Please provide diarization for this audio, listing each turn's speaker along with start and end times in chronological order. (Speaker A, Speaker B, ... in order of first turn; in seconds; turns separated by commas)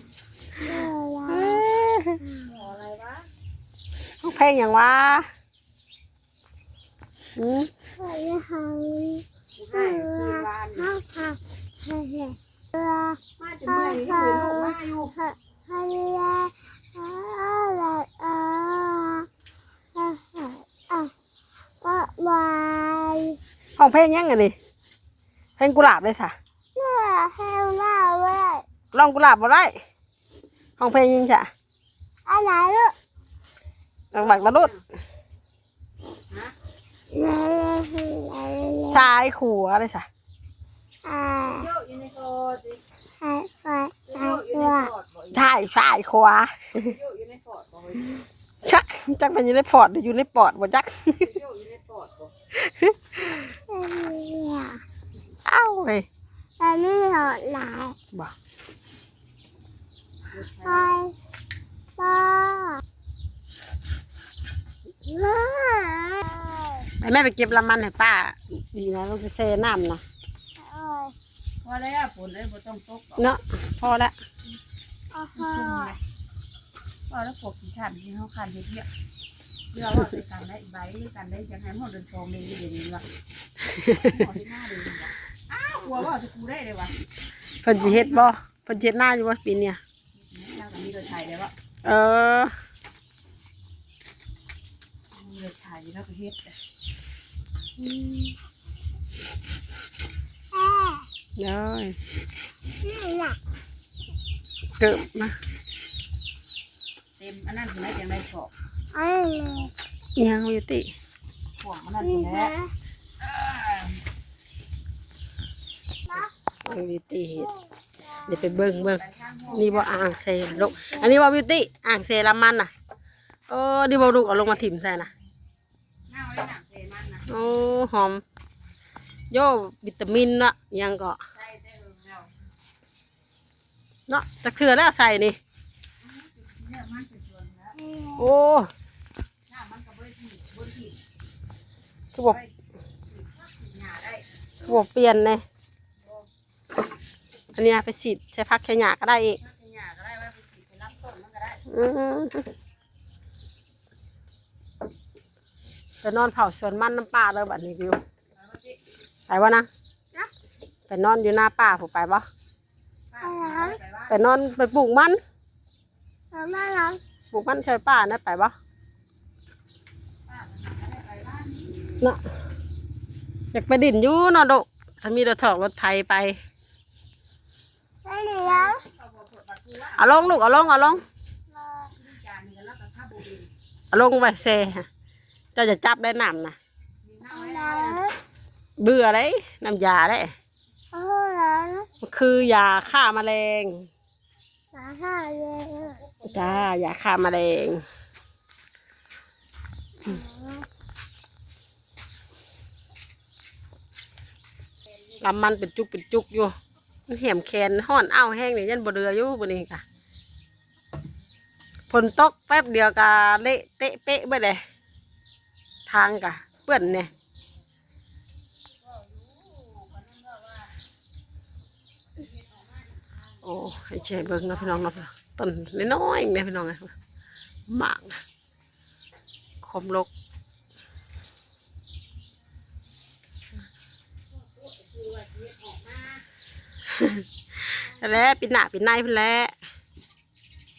Speaker A: 0.6-1.6, Speaker B: 1.3-2.3, Speaker A: 2.3-2.6, Speaker C: 2.5-3.3, Speaker B: 4.2-5.3, Speaker B: 7.4-7.7, Speaker A: 8.0-19.3, Speaker C: 9.6-10.9, Speaker C: 13.4-15.1, Speaker A: 19.9-21.1, Speaker A: 21.8-23.4, Speaker B: 23.8-24.6, Speaker B: 25.6-26.4, Speaker A: 26.8-28.6, Speaker B: 28.9-29.7, Speaker B: 30.8-31.5, Speaker A: 32.3-33.0, Speaker C: 34.1-34.8, Speaker B: 34.1-34.7, Speaker A: 37.1-39.0, Speaker B: 38.9-40.1, Speaker A: 41.0-41.7, Speaker C: 41.5-42.8, Speaker A: 43.2-44.9, Speaker C: 44.0-45.5, Speaker B: 45.3-46.9, Speaker C: 46.8-48.2, Speaker B: 48.6-51.3, Speaker C: 51.2-52.3, Speaker B: 52.5-53.5, Speaker A: 53.5-54.8, Speaker B: 55.5-56.1, Speaker A: 56.6-58.0, Speaker C: 60.3-61.0, Speaker A: 60.6-61.2, Speaker A: 62.0-62.8, Speaker A: 65.0-66.9, Speaker B: 67.0-70.0, Speaker A: 70.6-71.2, Speaker C: 71.6-73.3, Speaker B: 73.2-74.2, Speaker A: 75.1-76.0, Speaker C: 75.3-76.0, Speaker C: 77.1-78.9, Speaker C: 79.7-83.0, Speaker B: 83.8-84.1, Speaker C: 83.9-86.9, Speaker B: 87.6-89.8, Speaker C: 87.8-88.3, Speaker C: 90.2-91.5, Speaker B: 91.8-92.5, Speaker C: 95.1-96.5, Speaker A: 100.5-101.1, Speaker B: 101.4-102.0, Speaker A: 102.8-103.4, Speaker B: 104.8-105.3, Speaker C: 107.2-108.5, Speaker A: 108.9-109.7, Speaker B: 110.2-110.9, Speaker C: 111.6-112.5, Speaker A: 112.0-112.7, Speaker C: 113.2-114.0, Speaker B: 116.7-117.5, Speaker B: 118.3-122.7, Speaker C: 118.5-119.9, Speaker B: 123.5-125.1, Speaker C: 124.2-124.7, Speaker C: 126.1-127.4, Speaker B: 127.3-128.2, Speaker B: 129.3-131.2, Speaker C: 131.3-132.3, Speaker B: 134.1-135.4, Speaker C: 136.0-137.8, Speaker A: 137.8-138.2, Speaker B: 138.2-138.7, Speaker C: 139.5-141.0, Speaker C: 142.2-142.5, Speaker C: 143.1-144.2, Speaker B: 144.6-145.4, Speaker B: 147.6-149.4, Speaker C: 149.4-151.7, Speaker B: 151.7-152.5, Speaker B: 156.0-158.0, Speaker C: 158.4-158.8, Speaker B: 159.3-159.7, Speaker B: 160.9-162.3, Speaker C: 163.1-164.1, Speaker A: 163.2-163.8, Speaker B: 164.1-165.2, Speaker A: 166.3-167.0, Speaker B: 167.3-168.5, Speaker C: 170.3-171.9, Speaker B: 173.5-176.4, Speaker A: 178.1-178.8, Speaker C: 178.4-181.0, Speaker B: 179.9-181.0, Speaker A: 181.5-181.9, Speaker C: 181.9-183.5, Speaker B: 183.9-184.9, Speaker B: 185.6-186.6, Speaker C: 187.0-188.1, Speaker A: 187.3-188.2, Speaker B: 188.8-190.3, Speaker A: 190.9-191.9, Speaker B: 192.0-193.9, Speaker A: 194.7-196.0, Speaker C: 195.8-196.7, Speaker B: 196.2-197.8, Speaker A: 200.0-200.7, Speaker B: 205.2-206.5, Speaker B: 207.1-209.8, Speaker B: 211.9-214.6, Speaker B: 215.9-217.1, Speaker C: 218.8-220.7, Speaker C: 222.2-225.0, Speaker B: 223.4-226.9, Speaker B: 227.7-228.2, Speaker B: 229.6-230.1, Speaker C: 234.5-236.2, Speaker B: 236.9-239.5